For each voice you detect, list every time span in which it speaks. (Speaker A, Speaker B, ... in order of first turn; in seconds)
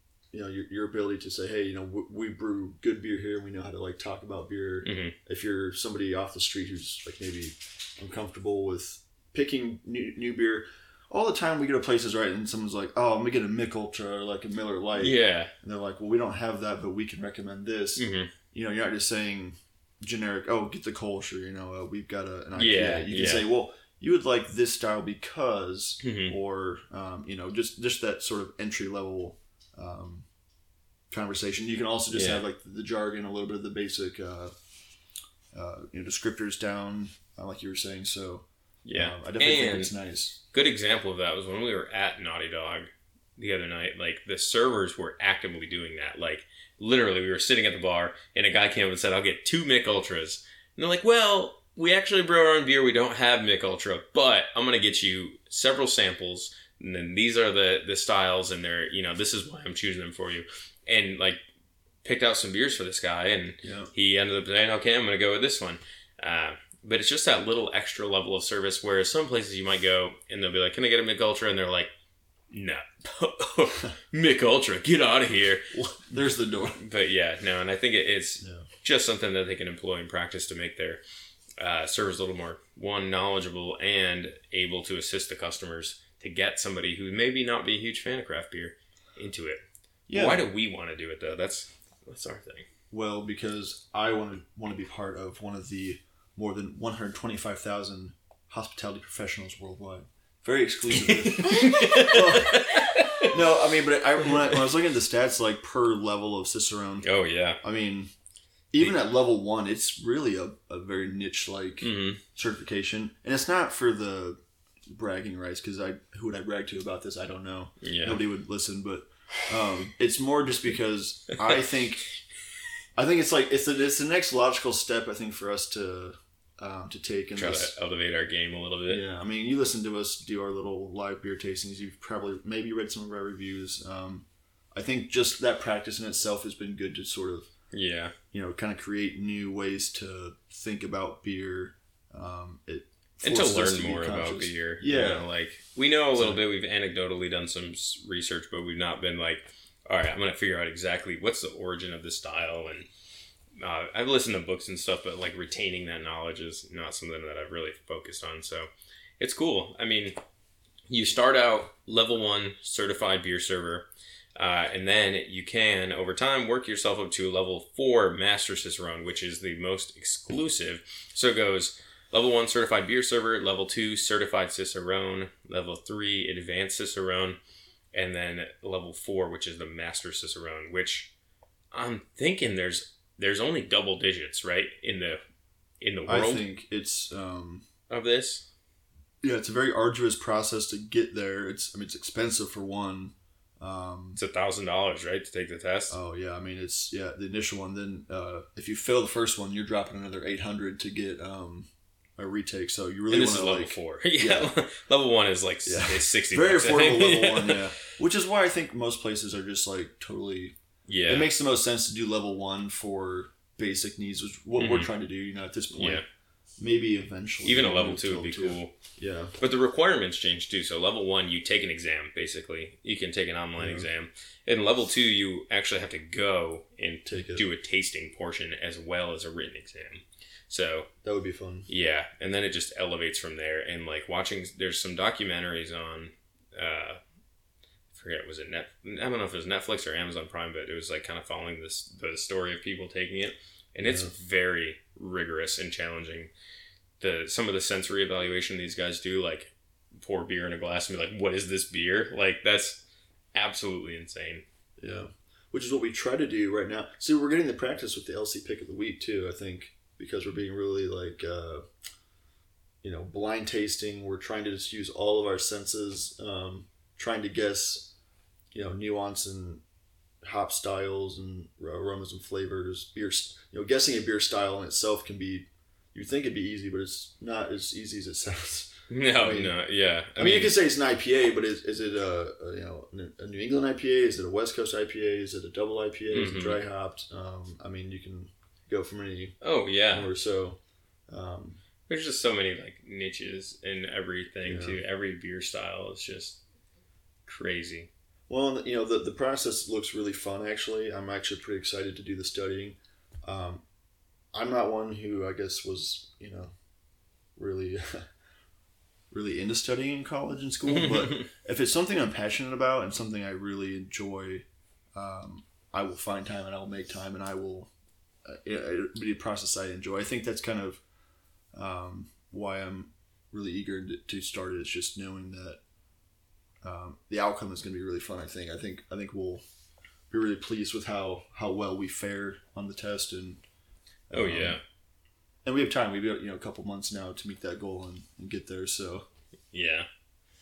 Speaker A: 0.3-30.2, 31.1-34.5, 35.5-40.4, 63.6-63.9, 75.7-76.8, 78.4-78.7, 90.1-90.4, 92.9-107.1, 107.6-108.1, 108.7-122.1, 123.0-127.7, 128.9-137.5, 138.3-145.3, 146.2-146.4, 186.1-187.6, 189.2-194.2, 195.9-204.5, 205.7-210.6, 211.1-216.0, 216.6-219.3, 223.6-223.9, 227.1-227.5, 231.0-231.7, 243.8-244.1, 254.8-261.6, 262.8-267.9, 268.5-269.6, 270.2-279.5, 280.2-289.4, 289.9-291.6, 294.4-294.8, 298.3-303.6, 304.3-306.5, 307.4-308.1, 309.1-317.7, 318.2-320.8, 321.5-325.6, 326.6-329.4, 330.1-333.4, 334.1-334.6, 335.4-339.1
Speaker B: 4.8-5.1, 15.0-15.5, 18.0-18.3, 22.6-23.5, 26.0-26.3, 32.1-32.4, 38.8-39.9, 40.5-61.4, 62.0-71.9, 72.5-75.7, 76.8-81.0, 81.6-92.7, 100.9-103.4, 107.0-107.6, 111.8-112.2, 117.8-118.2, 127.4-129.0, 137.7-138.1, 143.2-152.9, 153.6-160.2, 160.9-163.8, 164.4-177.4, 177.9-181.1, 181.7-185.2, 185.8-186.4, 187.9-188.4, 194.2-196.0, 203.1-207.7, 210.9-211.3, 214.6-214.9, 215.7-216.0, 217.4-218.8, 219.4-230.9, 231.7-237.0, 237.9-246.3, 247.0-252.8, 253.3-254.4, 278.9-280.6, 286.1-286.6, 289.4-290.1, 291.9-296.4, 297.3-297.9, 310.6-311.3, 334.1-334.6, 339.5-339.9